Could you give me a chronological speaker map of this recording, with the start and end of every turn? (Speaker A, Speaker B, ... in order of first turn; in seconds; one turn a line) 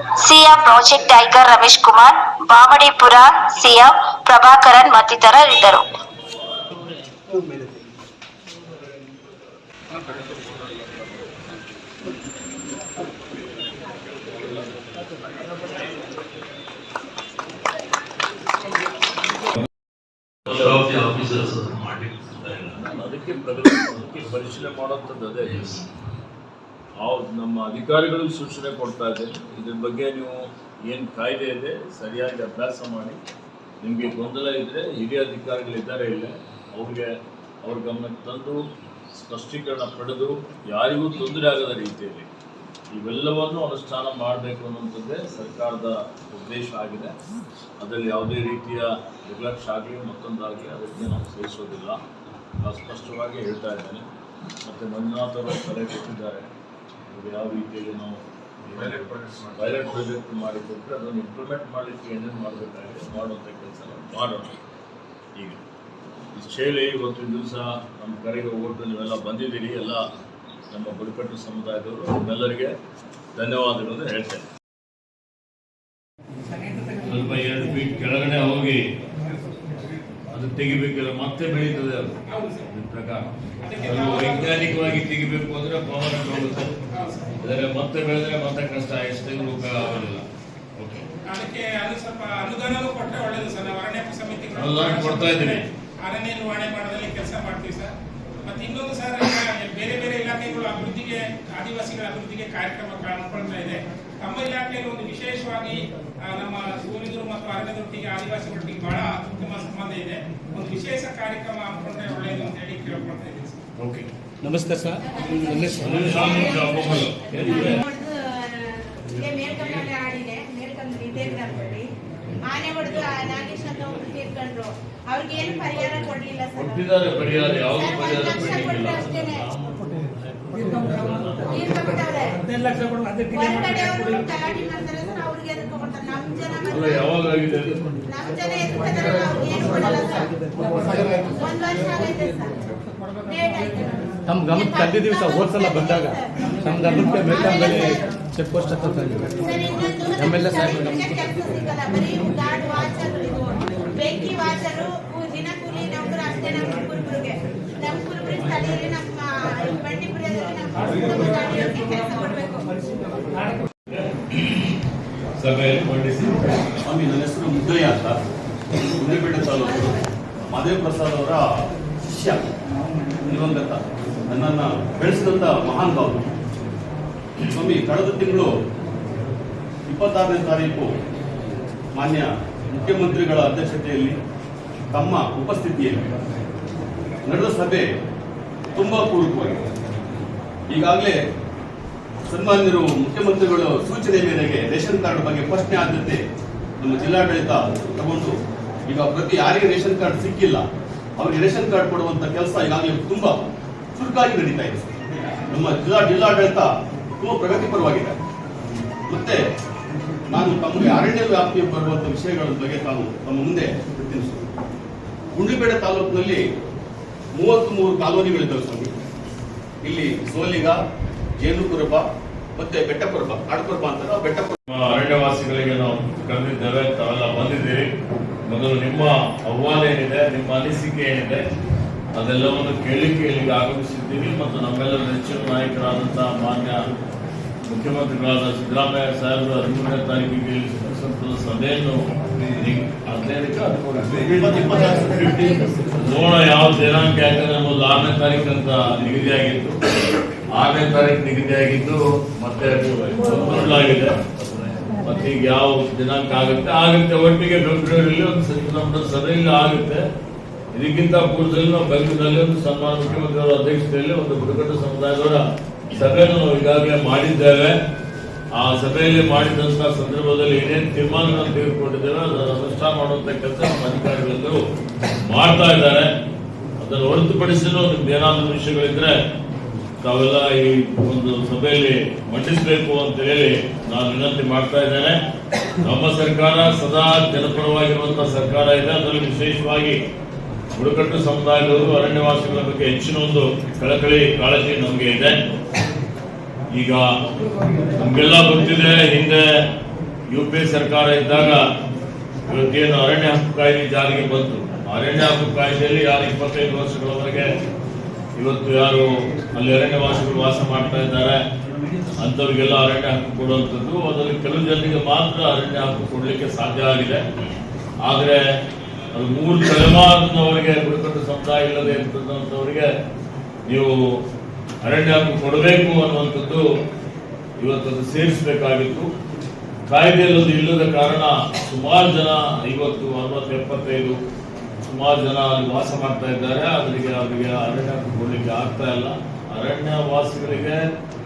Speaker A: 0.2-5.8
Speaker B: 20.5-25.8
Speaker B: 27.0-33.2
Speaker B: 33.8-38.6
Speaker B: 39.1-42.3
Speaker B: 42.9-47.1
Speaker B: 47.8-52.0
Speaker B: 52.6-54.0
Speaker B: 54.6-56.5
Speaker B: 57.1-64.5
Speaker B: 65.3-65.6
Speaker B: 66.3-70.0
Speaker B: 70.7-72.8
Speaker B: 73.3-74.4
Speaker B: 76.9-78.9
Speaker B: 80.3-86.7
Speaker C: 82.3-82.7
Speaker C: 83.6-84.7
Speaker C: 86.9-87.3
Speaker B: 87.4-91.0
Speaker C: 91.2-97.9
Speaker B: 94.5-95.6
Speaker C: 98.4-113.6
Speaker B: 113.8-114.0
Speaker D: 114.4-116.3
Speaker E: 115.0-121.9
Speaker B: 115.8-117.8
Speaker E: 122.4-129.5
Speaker B: 126.5-129.3
Speaker D: 130.5-131.3
Speaker E: 131.3-132.5
Speaker D: 132.6-133.2
Speaker E: 133.1-137.1
Speaker B: 136.7-137.8
Speaker E: 138.0-142.6
Speaker D: 140.9-141.2
Speaker E: 143.2-148.1
Speaker D: 144.3-149.4
Speaker E: 149.3-162.8
Speaker D: 150.2-151.2
Speaker B: 163.9-164.8
Speaker B: 165.4-166.7
Speaker F: 166.8-168.2
Speaker F: 169.0-169.9
Speaker E: 169.5-170.1
Speaker F: 170.5-171.4
Speaker F: 172.1-172.4
Speaker F: 173.2-176.2
Speaker F: 177.5-178.5
Speaker F: 179.9-180.9
Speaker F: 181.9-184.2
Speaker F: 184.9-186.0
Speaker F: 187.2-187.9
Speaker F: 188.7-189.6
Speaker F: 190.7-191.2
Speaker F: 192.2-196.2
Speaker F: 196.8-198.3
Speaker F: 198.9-200.6
Speaker F: 201.2-203.3
Speaker F: 203.9-205.0
Speaker F: 205.5-206.7
Speaker F: 207.2-208.2
Speaker F: 209.1-209.4
Speaker F: 210.3-214.5
Speaker F: 215.3-216.4
Speaker F: 217.3-218.9
Speaker F: 219.8-220.8
Speaker F: 221.4-224.6
Speaker B: 224.7-227.9
Speaker B: 228.4-231.4
Speaker B: 232.1-236.8
Speaker B: 237.7-249.8
Speaker F: 244.2-245.3
Speaker B: 250.5-260.0
Speaker B: 260.7-267.8
Speaker B: 268.5-274.6
Speaker B: 275.2-276.1
Speaker B: 276.8-279.2
Speaker B: 280.0-285.2
Speaker B: 285.8-290.0
Speaker B: 290.8-295.4
Speaker B: 296.7-297.0
Speaker B: 298.0-299.4
Speaker B: 300.3-301.6
Speaker B: 302.5-307.5
Speaker B: 308.4-311.4
Speaker B: 312.2-317.2
Speaker B: 318.0-318.4
Speaker B: 319.1-322.9
Speaker B: 323.6-324.2
Speaker B: 324.8-326.6
Speaker B: 327.6-329.1
Speaker B: 329.9-334.2
Speaker B: 334.8-340.8